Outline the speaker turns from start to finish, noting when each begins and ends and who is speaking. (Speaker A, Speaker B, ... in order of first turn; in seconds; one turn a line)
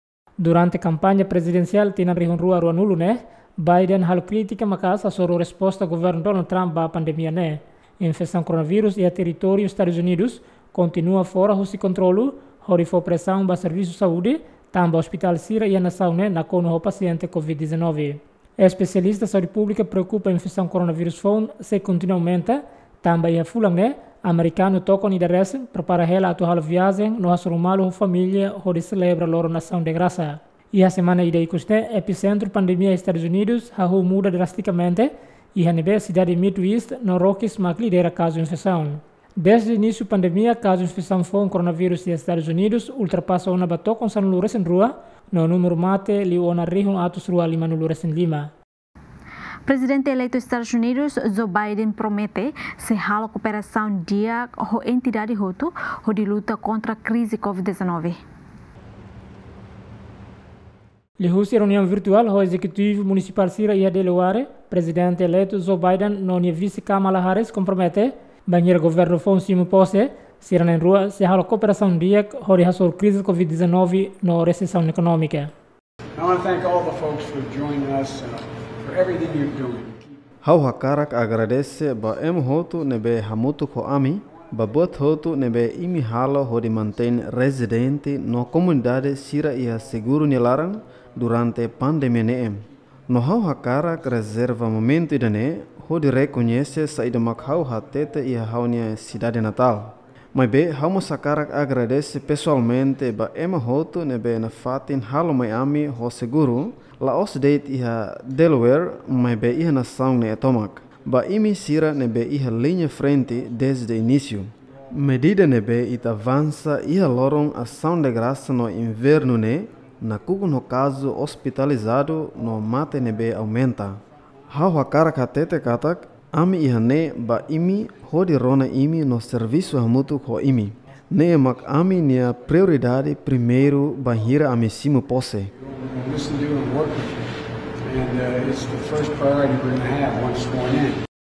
Speaker A: 0.4-48.5
Speaker B: 49.6-58.2
Speaker A: 61.2-75.5
Speaker C: 76.2-80.2
Speaker D: 80.4-135.5
Speaker C: 135.6-137.2
Speaker C: 137.8-141.0